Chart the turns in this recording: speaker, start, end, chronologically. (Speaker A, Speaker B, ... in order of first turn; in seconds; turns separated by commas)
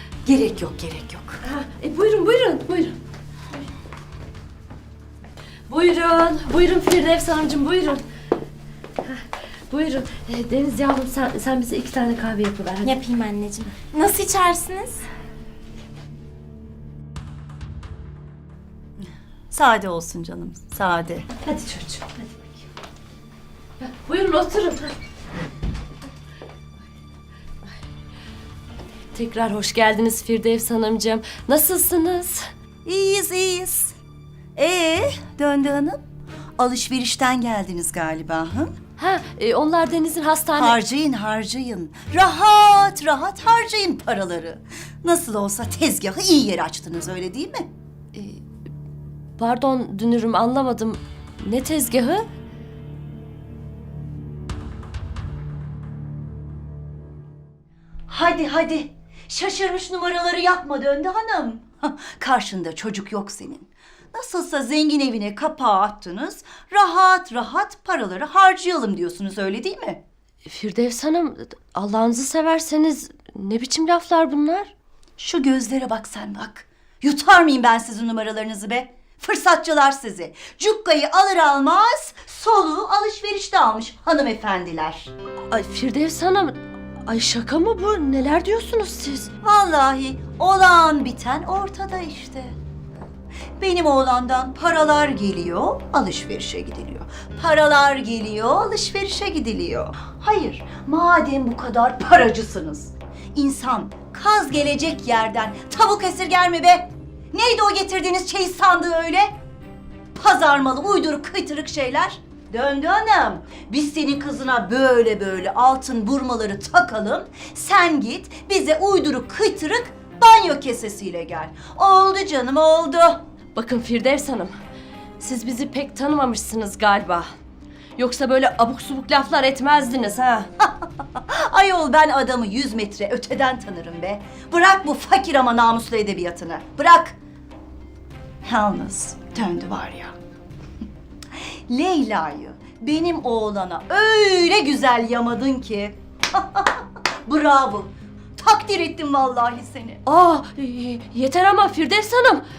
Speaker A: 0.2-1.4, Speaker B: 1.4-3.0, Speaker B: 5.7-8.0, Speaker B: 9.0-12.9, Speaker C: 12.8-15.1, Speaker A: 19.5-21.4, Speaker B: 21.4-22.2, Speaker B: 23.8-24.9, Speaker B: 29.1-32.5, Speaker A: 32.9-34.0, Speaker A: 34.6-36.0, Speaker A: 36.6-38.7, Speaker B: 39.0-40.8, Speaker A: 40.6-47.7, Speaker B: 48.1-48.4, Speaker B: 49.4-52.2, Speaker A: 58.1-70.0, Speaker B: 70.5-74.7, Speaker A: 75.2-85.1, Speaker B: 85.5-89.3, Speaker A: 89.4-92.5, Speaker A: 93.6-109.3, Speaker A: 110.2-123.2, Speaker B: 123.5-124.5, Speaker B: 125.2-127.3, Speaker B: 128.0-130.5, Speaker A: 130.6-137.2, Speaker A: 138.4-140.1, Speaker A: 141.4-150.0, Speaker B: 150.1-152.4